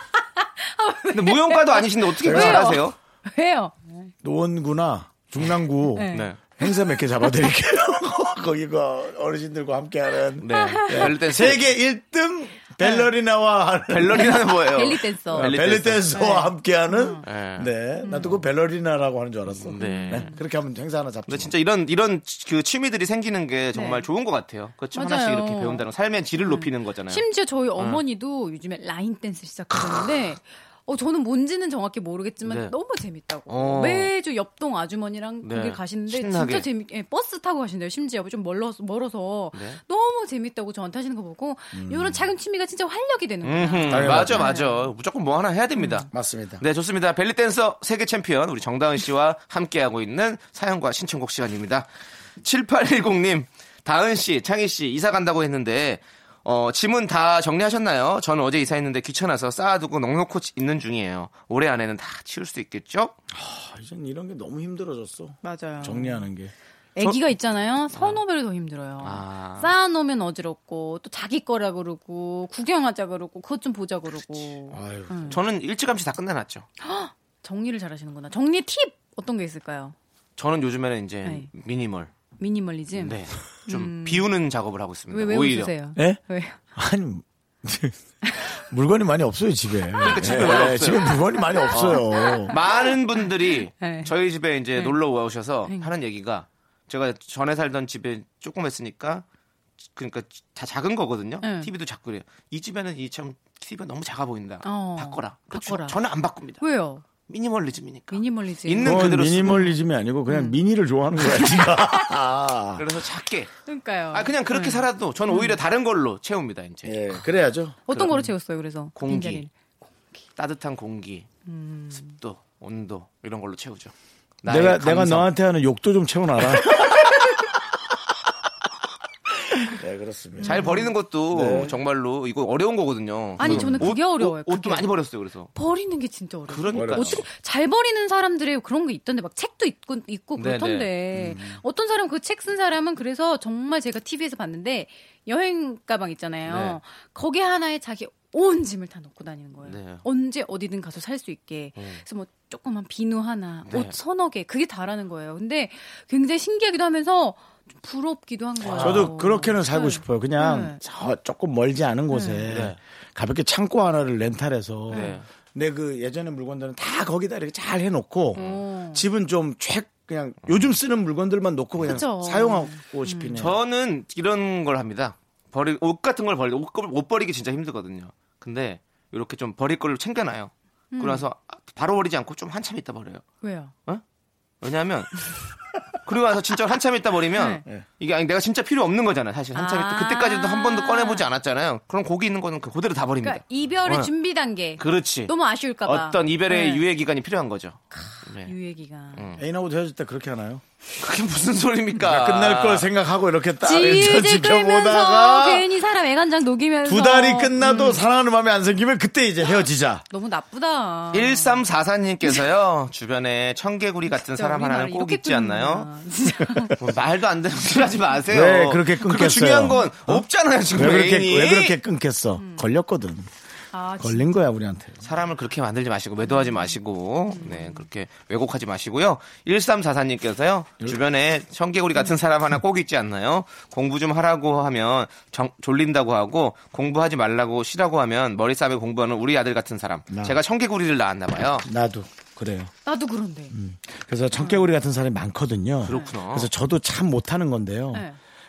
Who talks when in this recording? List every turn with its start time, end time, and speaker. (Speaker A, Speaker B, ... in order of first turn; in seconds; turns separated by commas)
Speaker A: 0.4-4.1, Speaker B: 1.1-3.0, Speaker C: 2.2-2.8, Speaker C: 4.2-14.5, Speaker A: 5.9-7.3, Speaker B: 6.1-6.4, Speaker B: 10.4-11.7, Speaker A: 10.5-11.2, Speaker A: 12.8-13.1, Speaker B: 13.9-16.1, Speaker A: 14.1-17.2, Speaker C: 15.3-21.5, Speaker B: 17.2-18.4, Speaker A: 18.0-18.4, Speaker B: 19.5-20.3, Speaker A: 19.7-20.4, Speaker B: 21.3-27.2, Speaker A: 23.7-24.1, Speaker A: 24.9-25.9, Speaker A: 26.4-44.9, Speaker B: 27.8-28.0, Speaker B: 29.7-30.0, Speaker B: 32.4-32.7, Speaker B: 33.5-34.1, Speaker B: 35.4-36.7, Speaker B: 39.5-39.8, Speaker C: 41.7-42.3, Speaker B: 43.4-51.9, Speaker C: 43.9-44.5, Speaker A: 45.8-46.0, Speaker C: 46.1-46.6, Speaker B: 52.4-63.1, Speaker C: 63.3-66.5, Speaker A: 65.4-66.3, Speaker A: 67.0-75.4, Speaker B: 67.9-68.2, Speaker B: 69.0-69.7, Speaker C: 74.7-75.4, Speaker B: 75.3-76.7, Speaker A: 76.8-79.9, Speaker B: 80.4-82.1, Speaker A: 81.2-81.5, Speaker A: 82.4-84.3, Speaker B: 82.9-85.7, Speaker A: 85.1-86.6, Speaker C: 86.0-86.2, Speaker C: 86.7-92.6, Speaker A: 88.2-88.5, Speaker B: 90.0-99.2, Speaker A: 90.0-93.2, Speaker A: 93.8-94.1, Speaker B: 99.9-106.6, Speaker A: 101.4-101.7, Speaker A: 104.6-106.0, Speaker A: 106.6-107.0, Speaker B: 107.3-109.7, Speaker A: 108.1-109.7, Speaker C: 108.8-112.8, Speaker A: 110.3-110.6, Speaker A: 111.3-111.9, Speaker B: 112.8-113.5, Speaker A: 113.7-115.6, Speaker B: 114.1-117.2, Speaker C: 116.8-118.2, Speaker A: 117.9-120.2, Speaker B: 117.9-118.2, Speaker B: 118.9-119.4, Speaker B: 120.3-121.3, Speaker A: 121.5-122.2, Speaker B: 121.9-125.3, Speaker C: 124.4-127.0, Speaker C: 129.6-130.7, Speaker A: 130.4-130.9, Speaker B: 130.4-135.5, Speaker C: 131.3-131.8, Speaker C: 133.4-133.9, Speaker A: 133.4-134.9, Speaker A: 135.5-160.8, Speaker B: 136.5-137.3, Speaker C: 136.7-137.2, Speaker B: 140.3-140.9, Speaker C: 141.1-141.6, Speaker B: 146.4-146.8, Speaker B: 149.6-150.0, Speaker B: 151.8-152.0, Speaker B: 153.7-153.9, Speaker B: 158.6-159.3, Speaker C: 158.8-173.6, Speaker A: 162.1-162.4, Speaker B: 162.5-162.8, Speaker B: 164.9-165.2, Speaker A: 164.9-165.2, Speaker B: 168.3-168.6, Speaker A: 168.3-169.0, Speaker A: 171.8-173.4, Speaker B: 173.3-183.2, Speaker A: 180.9-181.3, Speaker A: 183.4-183.7, Speaker B: 184.6-185.2, Speaker B: 186.0-194.1, Speaker A: 187.3-187.6, Speaker A: 189.5-191.2, Speaker A: 193.2-196.8, Speaker B: 194.8-195.3, Speaker B: 195.8-198.5, Speaker A: 197.9-199.3, Speaker B: 199.1-199.4, Speaker C: 199.3-200.6, Speaker B: 201.0-202.9, Speaker C: 202.0-205.7, Speaker A: 203.6-208.0, Speaker C: 206.8-210.1, Speaker A: 210.1-211.6, Speaker B: 211.1-215.9, Speaker A: 214.1-216.7, Speaker B: 216.8-221.8, Speaker C: 218.3-223.3, Speaker A: 222.4-222.6, Speaker A: 223.7-224.3, Speaker C: 224.0-225.1, Speaker B: 225.0-241.7, Speaker A: 226.2-226.7, Speaker A: 227.3-227.8, Speaker C: 240.1-240.4, Speaker C: 241.6-242.7, Speaker A: 242.8-243.5, Speaker C: 243.5-248.1, Speaker A: 244.3-244.6, Speaker B: 245.8-246.5, Speaker A: 247.9-248.2